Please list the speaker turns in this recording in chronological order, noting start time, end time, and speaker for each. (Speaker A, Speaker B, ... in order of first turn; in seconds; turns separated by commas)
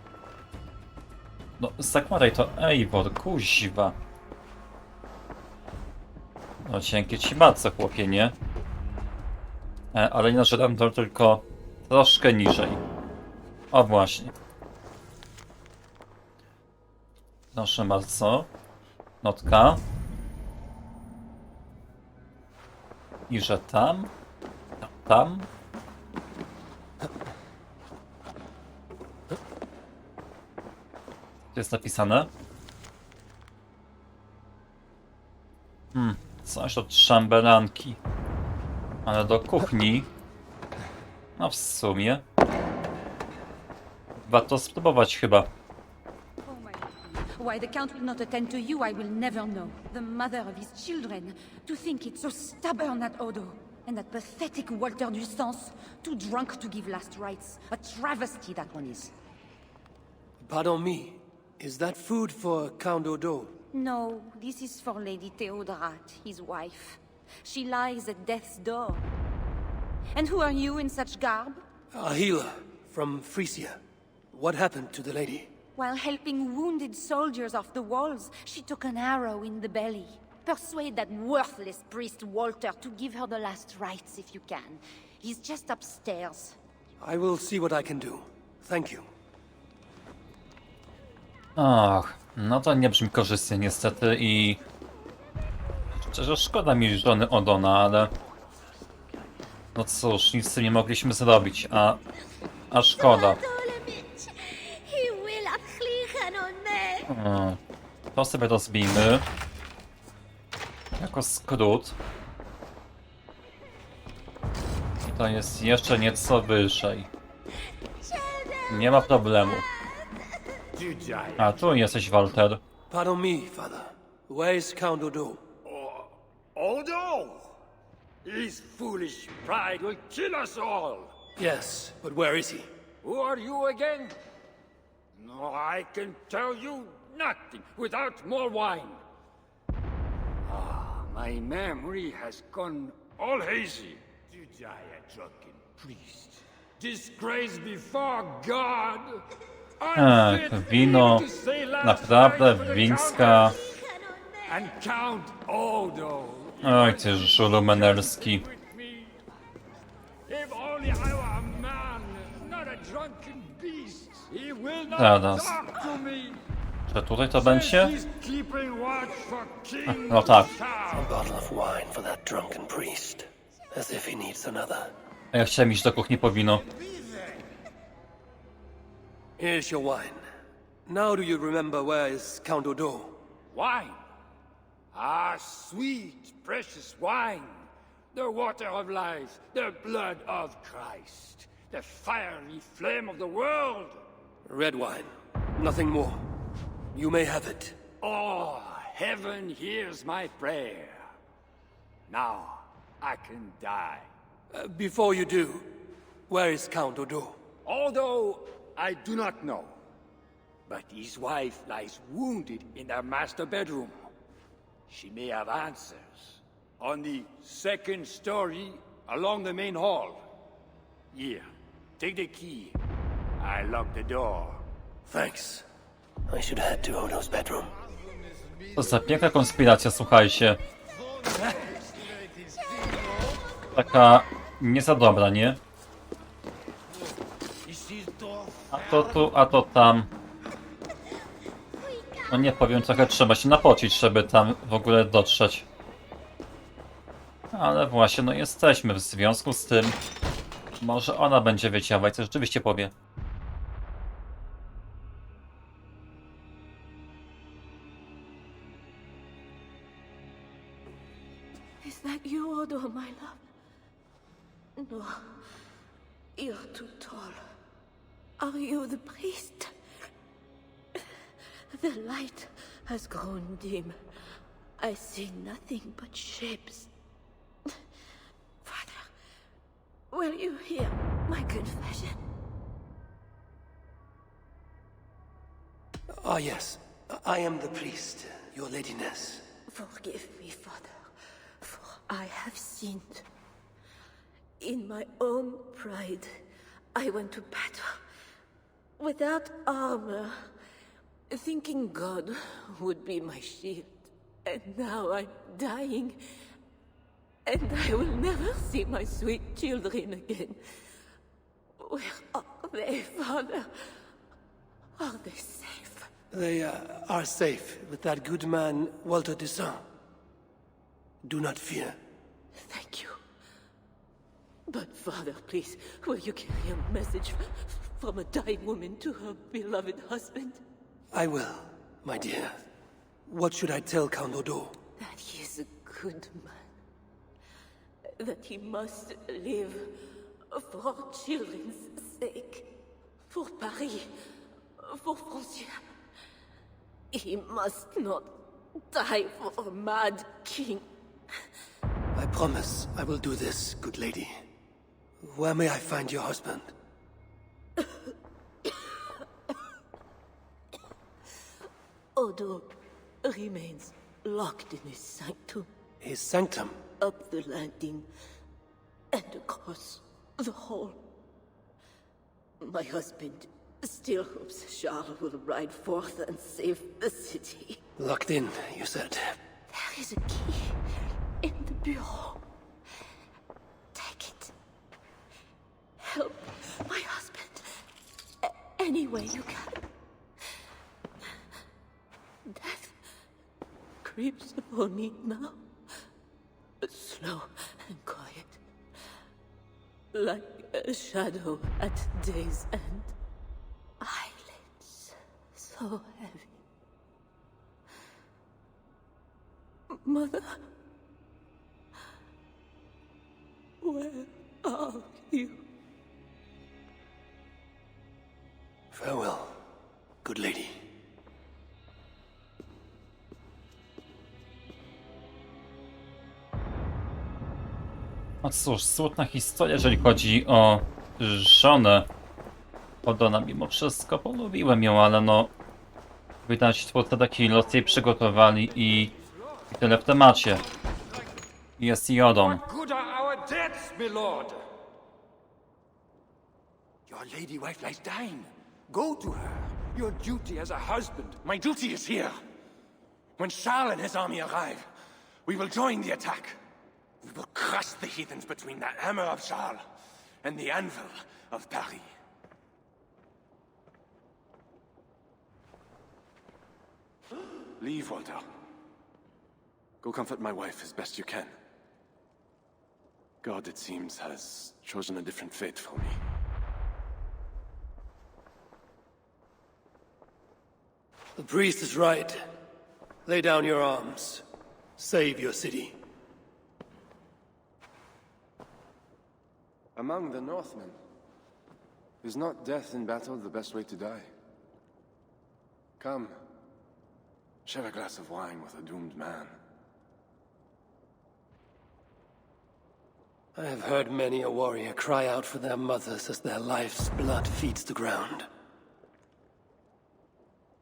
Speaker A: 1.6-4.0, Speaker A: 6.6-8.3, Speaker A: 9.9-12.8, Speaker A: 13.7-14.3, Speaker A: 17.5-18.5, Speaker A: 19.2-19.8, Speaker A: 23.3-24.1, Speaker A: 24.8-25.5, Speaker A: 31.5-32.3, Speaker A: 35.9-38.0, Speaker A: 39.0-40.1, Speaker A: 41.4-42.2, Speaker A: 44.2-45.5, Speaker B: 46.4-59.1, Speaker C: 60.4-63.5, Speaker B: 63.7-69.0, Speaker B: 70.1-71.6, Speaker C: 71.9-73.8, Speaker C: 74.3-75.5, Speaker B: 75.8-86.6, Speaker C: 87.0-89.1, Speaker A: 91.5-94.6, Speaker A: 96.0-98.1, Speaker A: 99.7-102.0, Speaker A: 102.7-103.4, Speaker D: 103.0-107.1, Speaker A: 107.1-107.6, Speaker A: 108.1-109.2, Speaker A: 111.0-112.0, Speaker A: 115.0-117.1, Speaker A: 118.7-119.7, Speaker E: 120.7-121.8, Speaker A: 121.4-122.6, Speaker C: 122.9-125.4, Speaker E: 125.6-127.6, Speaker E: 128.2-131.1, Speaker C: 131.4-132.7, Speaker E: 133.0-134.2, Speaker E: 135.2-139.0, Speaker E: 140.4-149.2, Speaker E: 149.8-153.7, Speaker A: 149.9-151.2, Speaker A: 151.8-153.6, Speaker D: 154.0-154.4, Speaker E: 154.4-159.2, Speaker A: 156.6-158.4, Speaker E: 160.3-166.4, Speaker A: 164.9-165.6, Speaker A: 166.9-167.9, Speaker E: 167.3-171.1, Speaker A: 169.8-170.5, Speaker C: 170.9-174.9, Speaker A: 175.3-176.6, Speaker E: 176.8-177.4, Speaker C: 179.4-180.2, Speaker C: 180.8-183.2, Speaker E: 183.5-184.0, Speaker E: 184.9-194.0, Speaker C: 194.4-196.2, Speaker C: 196.9-197.8, Speaker E: 198.0-201.1, Speaker E: 202.1-204.1, Speaker C: 204.5-205.8, Speaker C: 206.3-207.4, Speaker E: 207.7-209.8, Speaker E: 210.7-214.0, Speaker E: 214.9-220.3, Speaker E: 221.1-222.8, Speaker E: 223.4-224.6, Speaker C: 225.1-225.7, Speaker C: 226.3-227.7, Speaker A: 228.7-230.6, Speaker E: 231.3-232.6, Speaker A: 233.7-235.6, Speaker E: 237.7-239.1, Speaker A: 238.7-240.1, Speaker A: 242.3-245.7, Speaker A: 247.5-250.0, Speaker A: 250.8-252.9, Speaker D: 261.8-263.4, Speaker D: 264.8-265.3, Speaker D: 266.4-267.4, Speaker D: 268.4-269.7, Speaker D: 271.7-274.0, Speaker D: 274.8-276.9, Speaker D: 278.6-279.1, Speaker D: 280.1-282.2, Speaker C: 286.1-289.4, Speaker D: 289.7-291.1, Speaker D: 291.6-293.2, Speaker D: 294.6-296.4, Speaker D: 296.9-298.0, Speaker D: 299.0-300.4, Speaker D: 301.3-306.2, Speaker D: 307.4-310.6, Speaker D: 311.8-313.9, Speaker D: 315.0-316.1, Speaker C: 316.3-319.8, Speaker C: 321.2-322.0, Speaker D: 322.6-323.2, Speaker D: 324.7-330.6, Speaker C: 331.1-332.6, Speaker C: 333.3-334.8, Speaker D: 335.0-336.7, Speaker D: 338.2-342.7, Speaker D: 343.3-344.1, Speaker D: 344.8-345.8, Speaker D: 347.1-350.9, Speaker C: 352.1-354.4, Speaker C: 355.2-356.7, Speaker D: 362.1-362.7, Speaker D: 363.2-365.7, Speaker C: 366.0-366.8, Speaker D: 367.0-368.1, Speaker D: 369.1-371.0, Speaker D: 372.6-377.8, Speaker C: 378.0-379.4, Speaker D: 379.7-380.8, Speaker D: 381.4-382.4, Speaker D: 383.9-384.5, Speaker D: 386.0-387.8, Speaker D: 388.4-389.8, Speaker D: 392.4-393.0, Speaker D: 394.0-395.6, Speaker D: 396.8-398.6, Speaker D: 400.1-403.1, Speaker D: 404.0-406.5, Speaker D: 409.9-410.6, Speaker D: 413.8-415.6, Speaker C: 418.9-419.6, Speaker C: 420.2-420.8, Speaker A: 428.4-432.1, Speaker A: 433.0-435.5, Speaker A: 436.4-439.1, Speaker E: 439.0-439.4, Speaker A: 439.7-440.6, Speaker A: 441.8-442.6, Speaker E: 442.4-444.6, Speaker E: 447.1-451.4, Speaker F: 451.4-452.4, Speaker F: 453.4-454.9, Speaker F: 455.4-456.6, Speaker F: 457.2-459.8, Speaker F: 460.4-462.1, Speaker F: 467.8-468.4, Speaker F: 470.0-471.5, Speaker F: 473.4-476.2, Speaker C: 481.4-482.5, Speaker C: 483.2-484.4, Speaker C: 485.0-486.0, Speaker F: 489.9-490.9, Speaker F: 492.2-494.3, Speaker F: 496.0-496.4, Speaker F: 497.6-499.5, Speaker C: 503.5-508.5